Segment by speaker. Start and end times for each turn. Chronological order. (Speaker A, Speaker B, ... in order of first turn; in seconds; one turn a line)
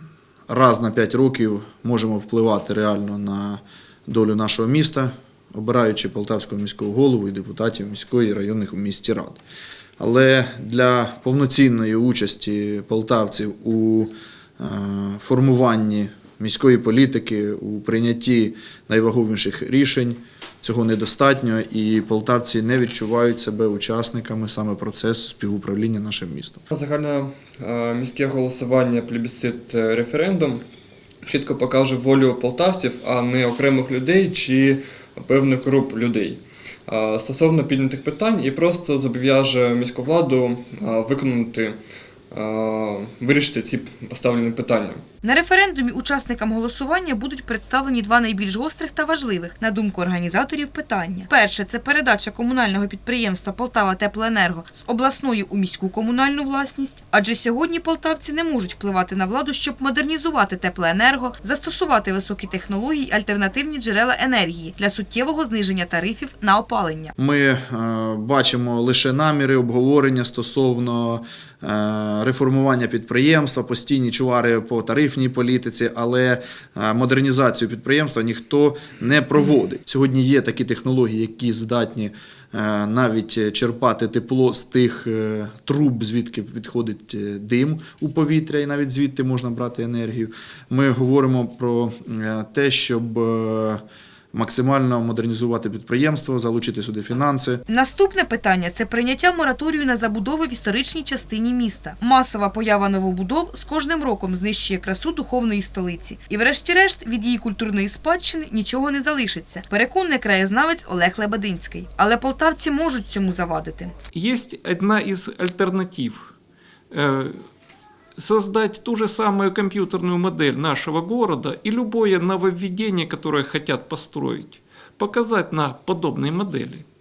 Speaker A: 0.5-9.4
Speaker A: 10.0-26.6
Speaker B: 26.7-30.6
Speaker B: 31.2-41.8
Speaker B: 42.3-45.0
Speaker C: 45.2-67.1
Speaker A: 67.2-93.8
Speaker A: 94.3-97.6
Speaker C: 97.7-113.9
Speaker D: 114.1-116.3
Speaker D: 116.9-117.4
Speaker D: 118.2-126.8